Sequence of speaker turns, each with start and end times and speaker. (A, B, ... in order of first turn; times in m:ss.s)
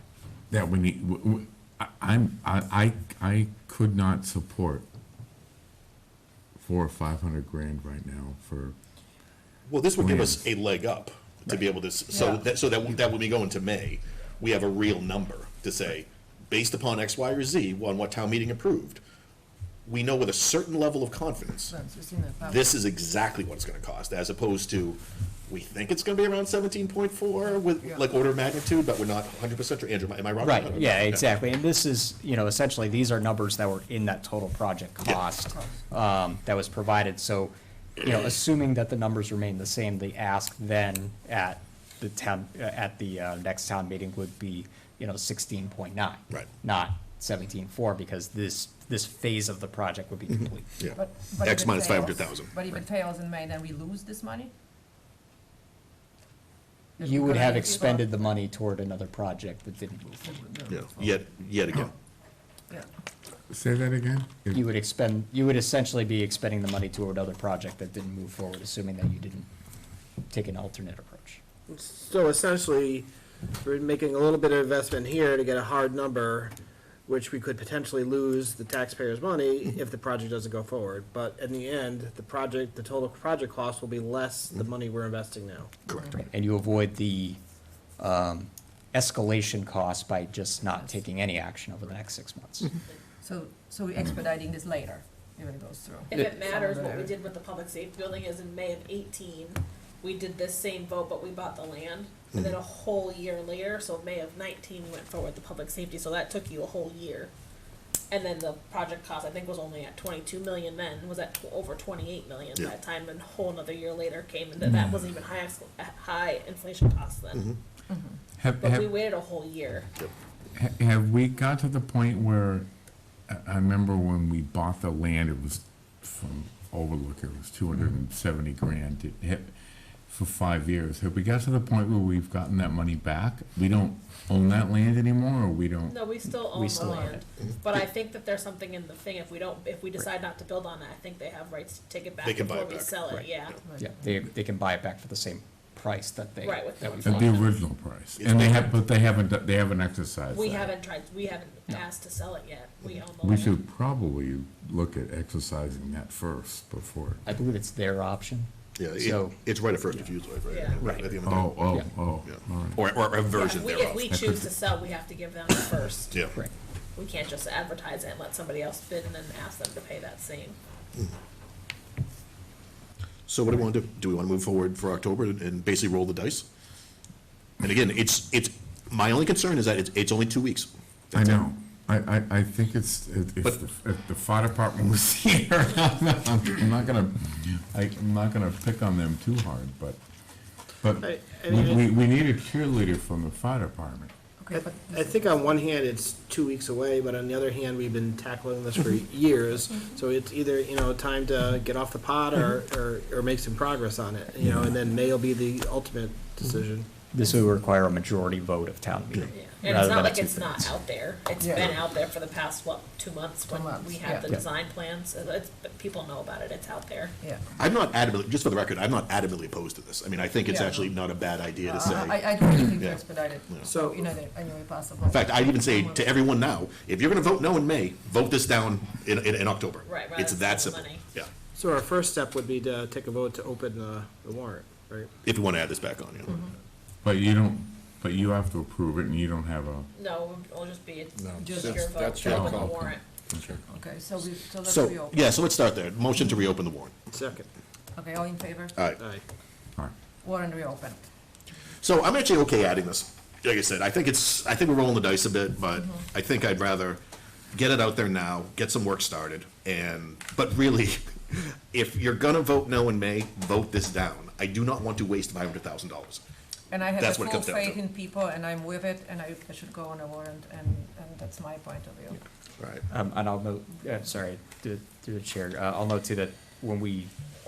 0:00.5-0:04.8 A
0:06.6-0:08.8 A
0:09.7-0:19.0 B
0:10.0-0:10.4 A
0:12.1-0:12.4 C
0:19.8-0:21.7 B
0:21.7-0:22.7 C
0:22.4-0:31.3 B
0:30.4-0:50.8 D
0:50.8-0:52.5 B
0:50.9-0:54.5 C
0:57.0-0:58.3 C
0:57.0-1:00.4 D
1:00.2-1:01.2 C
1:00.7-1:01.9 B
1:03.5-1:04.6 A
1:04.5-1:09.5 D
1:10.3-1:11.4 D
1:11.7-1:13.1 E
1:13.6-1:16.5 E
1:17.1-1:25.7 E
1:26.2-1:27.4 D
1:28.0-1:32.7 D
1:33.2-1:37.1 C
1:36.1-1:47.3 F
1:48.1-1:57.4 F
1:54.6-1:54.9 A
1:57.9-1:58.2 C
1:58.4-1:58.9 A
1:58.6-1:59.9 F
2:00.5-2:02.7 A
2:03.3-2:09.5 A
2:10.1-2:16.1 A
2:15.9-2:23.6 F
2:16.3-2:17.0 D
2:16.8-2:17.2 C
2:22.2-2:23.0 B
2:23.1-2:27.4 D
2:23.6-2:24.0 C
2:26.4-2:27.6 F
2:27.0-2:30.7 A
2:28.2-2:28.8 B
2:30.3-2:33.6 F
2:33.2-2:37.2 A
2:37.2-2:39.4 D
2:38.8-2:41.6 B
2:40.5-2:40.8 F
2:40.8-2:41.2 D
2:41.2-2:42.8 A
2:42.2-2:44.0 B
2:43.3-2:46.2 F
2:44.1-2:44.5 A
2:47.0-2:50.6 F
2:53.3-2:56.4 B
2:57.6-3:01.4 B
3:01.1-3:10.0 A
3:10.8-3:14.1 A
3:11.0-3:11.8 E
3:14.4-3:15.2 C
3:14.5-3:27.0 E
3:27.1-3:30.7 D
3:29.3-3:37.1 F
3:31.4-3:31.7 C
3:31.5-3:31.8 B
3:33.5-3:34.3 C
3:37.2-3:37.4 C
3:37.6-3:43.7 B
3:40.4-3:40.9 C
3:41.6-3:46.2 C
3:45.1-3:51.3 B
3:49.8-3:51.0 F
3:51.6-3:55.1 E
3:55.2-3:56.4 B
3:57.0-3:59.9 A
3:59.9-4:03.0 F
4:01.4-4:02.6 C
4:01.6-4:02.1 D
4:02.2-4:02.7 A
4:03.3-4:03.6 A
4:03.7-4:05.3 C
4:04.6-4:06.9 B
4:07.1-4:07.4 E
4:07.9-4:08.9 C
4:10.2-4:11.0 C
4:11.8-4:17.0 B
4:17.5-4:26.2 B
4:26.7-4:32.2 C
4:27.0-4:27.8 B
4:32.9-4:37.1 D